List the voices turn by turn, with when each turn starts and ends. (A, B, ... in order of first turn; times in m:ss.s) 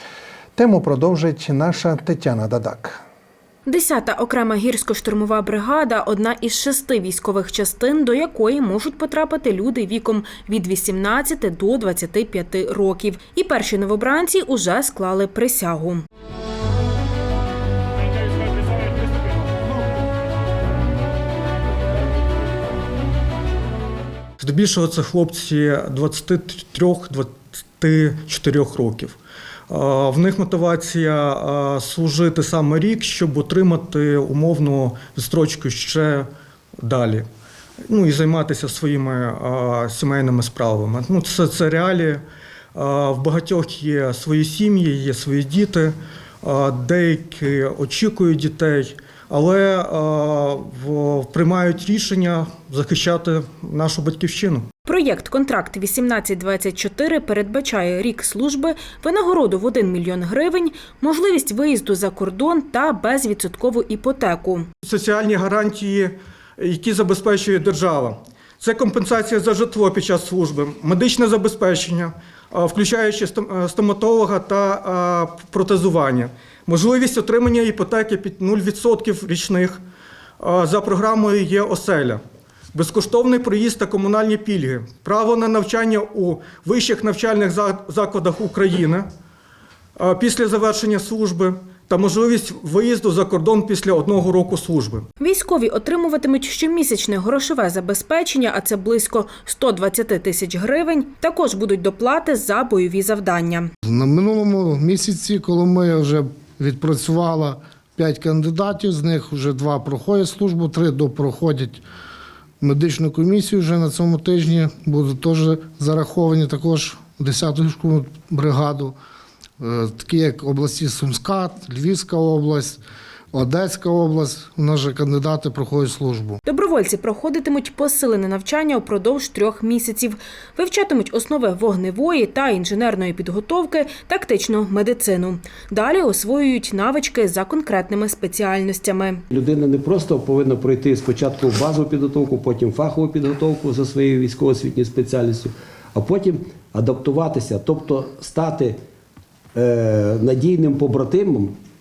0:00.6-0:03.0 A
0:03.7-0:16.0 B
0:24.4-0:29.2 C
0:29.7-0:36.3 C
0:36.8-0:37.2 C
0:37.9-0:42.2 C
0:42.8-0:54.7 C
0:54.9-1:04.7 B
1:04.8-1:19.8 C
1:20.4-1:22.2 C
1:22.7-1:29.1 C
1:30.0-1:35.1 C
1:35.2-1:43.7 B
1:43.8-1:51.8 D
1:52.6-1:59.0 D
1:59.6-2:02.8 D
2:03.3-2:06.4 D
2:06.4-2:19.2 B
2:19.3-2:28.8 E
2:29.6-2:31.6 E